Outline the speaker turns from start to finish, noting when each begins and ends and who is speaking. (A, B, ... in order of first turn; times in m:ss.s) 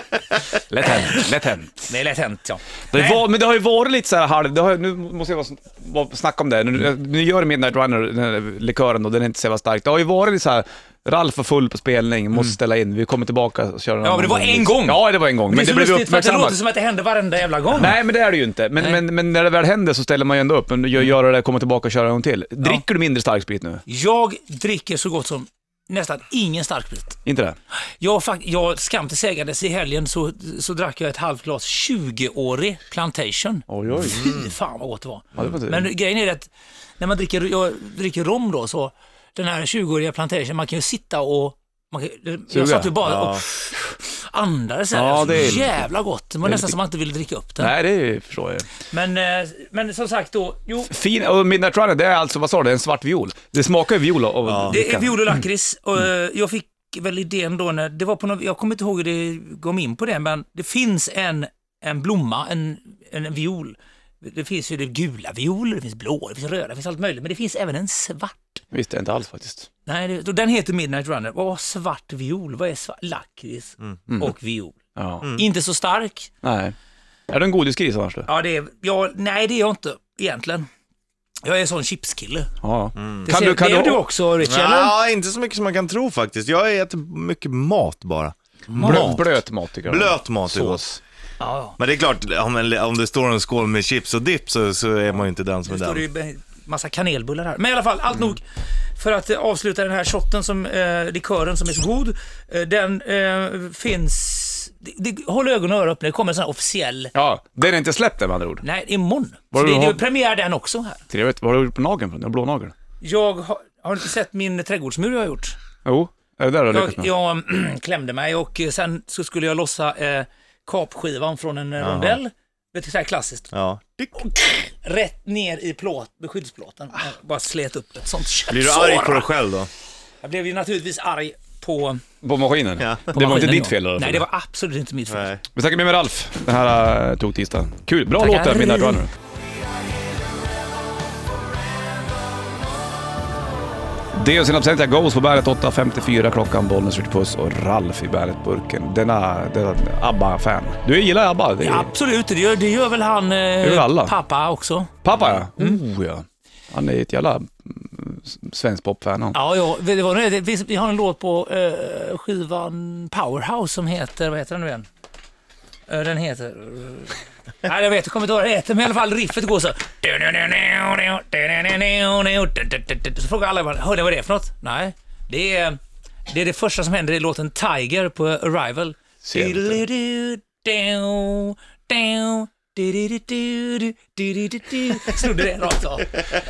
0:00.7-0:01.9 A
0:00.9-0:01.2 B
0:01.9-0:03.2 B
0:02.9-0:16.6 A
0:14.0-0:18.0 B
0:17.7-0:23.8 A
0:23.9-0:27.2 B
0:27.2-0:27.6 A
0:28.0-0:47.7 B
0:33.7-0:34.2 A
0:34.0-0:34.5 C
0:35.4-0:35.9 A
0:42.5-0:43.0 A
0:43.0-0:43.4 C
0:44.9-0:45.9 A
0:46.4-0:46.8 A
0:47.6-0:48.7 A
0:48.9-0:50.9 B
0:50.9-0:55.4 A
0:54.5-0:54.8 C
0:54.7-1:08.6 B
1:08.7-1:09.7 A
1:09.9-1:16.3 B
1:15.0-1:15.3 A
1:16.4-1:16.8 A
1:17.3-1:18.3 A
1:18.3-1:20.7 B
1:21.4-1:22.5 B
1:22.6-1:24.0 A
1:23.0-1:23.3 C
1:23.2-1:25.0 B
1:24.4-1:30.8 C
1:28.8-1:31.0 A
1:31.4-1:31.8 B
1:31.8-1:36.0 C
1:35.7-1:38.4 B
1:39.0-1:47.1 B
1:47.1-1:48.6 A
1:48.6-1:51.0 B
1:49.5-1:50.0 A
1:51.1-1:52.7 A
1:53.0-1:55.6 B
1:55.8-1:57.1 A
1:56.7-2:03.5 B
2:01.8-2:02.2 C
2:03.5-2:04.3 C
2:04.2-2:09.3 B
2:08.5-2:09.7 C
2:10.2-2:12.0 B
2:12.2-2:14.2 A
2:12.8-2:13.1 C
2:13.1-2:15.3 B
2:15.1-2:15.4 C
2:15.5-2:19.1 A
2:18.2-2:19.0 B
2:24.1-2:31.9 A
2:31.6-2:35.0 B
2:33.6-2:34.2 A
2:35.0-2:39.4 A
2:39.3-2:44.9 B
2:45.9-3:06.2 B
2:59.2-2:59.8 A